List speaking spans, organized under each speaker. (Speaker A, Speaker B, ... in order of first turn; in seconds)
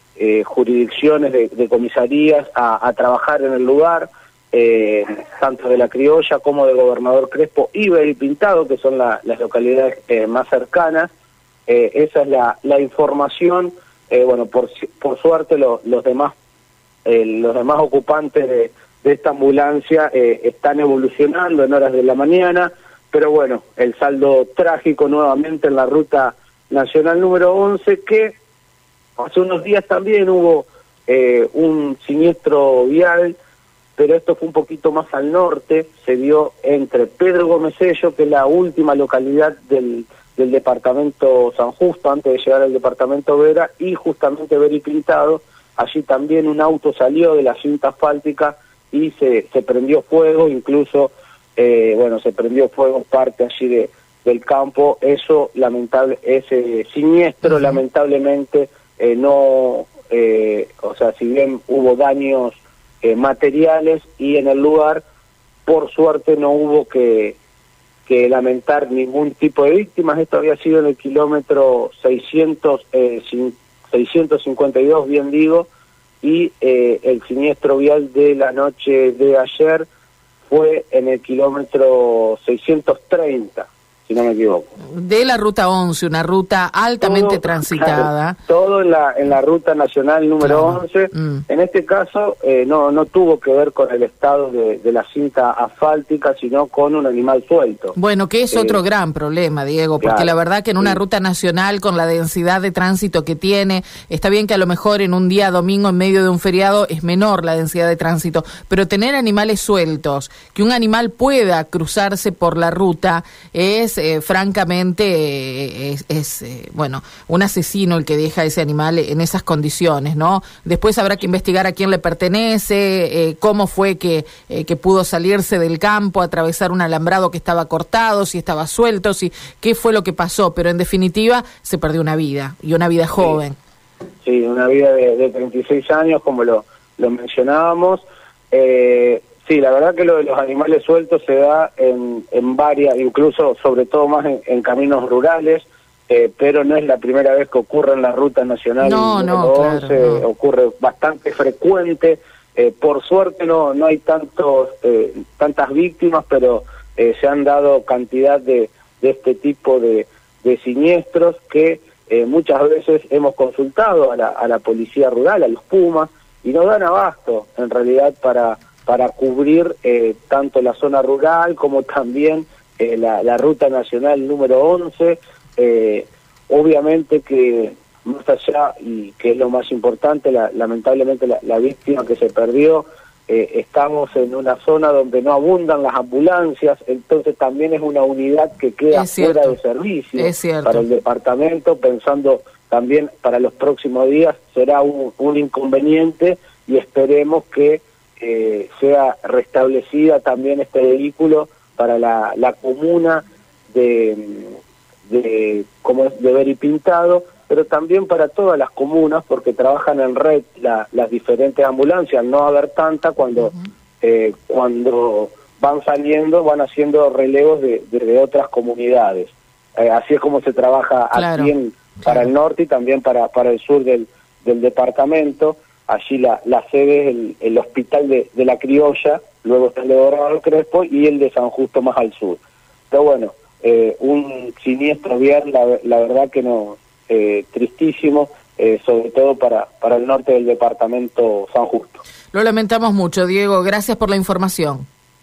Speaker A: 0.2-11.1, 11.7-16.3, 17.0-28.4, 29.2-33.4, 34.0-65.0, 65.7-67.4, 68.0-75.7, 76.2-79.9, 80.5-84.7, 87.0-98.0, 98.5-98.8, 100.0-101.0, 134.2-232.4, 232.9-242.0
Speaker B: 57.4-57.8, 84.9-88.4, 90.4-91.4, 98.0-133.6, 148.8-150.2, 188.9-189.6, 190.2-190.8, 221.1-221.5, 222.0-222.3, 242.3-244.9